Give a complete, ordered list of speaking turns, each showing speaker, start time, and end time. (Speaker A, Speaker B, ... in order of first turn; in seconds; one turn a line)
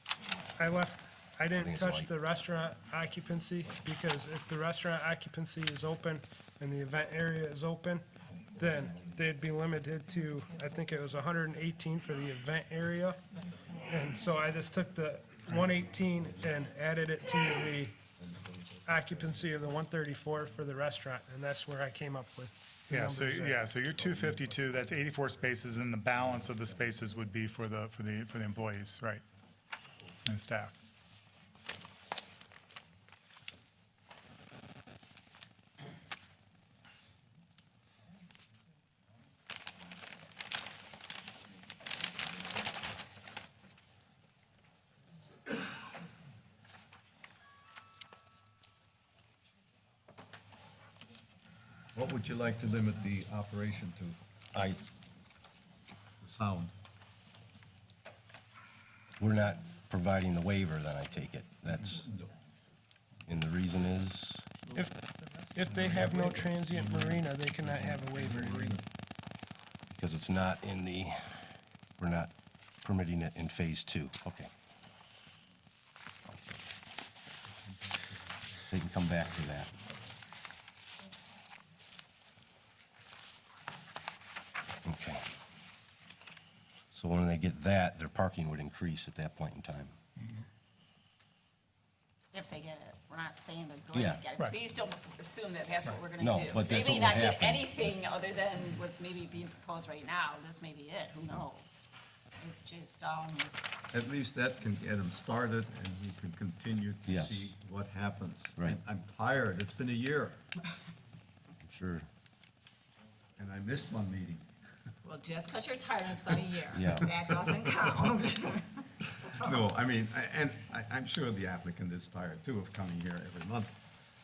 Speaker A: 0.6-13.2
Speaker B: 1.5-2.1
Speaker C: 8.6-9.1
Speaker D: 13.3-14.1
Speaker A: 13.9-18.1
Speaker C: 15.4-16.6
Speaker C: 18.1-19.6
Speaker A: 18.9-23.7
Speaker E: 22.9-29.2
Speaker C: 23.9-24.6
Speaker E: 30.2-30.8
Speaker C: 51.9-54.2
Speaker B: 54.5-54.8
Speaker C: 56.2-56.8
Speaker B: 59.2-62.0
Speaker C: 61.9-62.3
Speaker B: 63.2-64.5
Speaker A: 65.5-68.8
Speaker C: 65.7-68.8
Speaker B: 69.9-71.4
Speaker B: 72.0-72.3
Speaker B: 72.8-74.5
Speaker B: 78.7-79.7
Speaker B: 84.8-85.2
Speaker B: 86.9-89.9
Speaker D: 92.3-101.9
Speaker B: 93.9-94.2
Speaker B: 96.2-97.8
Speaker D: 102.4-103.6
Speaker C: 103.9-110.4
Speaker B: 107.1-107.5
Speaker B: 111.6-112.1
Speaker C: 113.4-114.5
Speaker D: 115.0-119.6
Speaker B: 116.7-117.1
Speaker C: 117.4-117.9
Speaker C: 119.4-123.8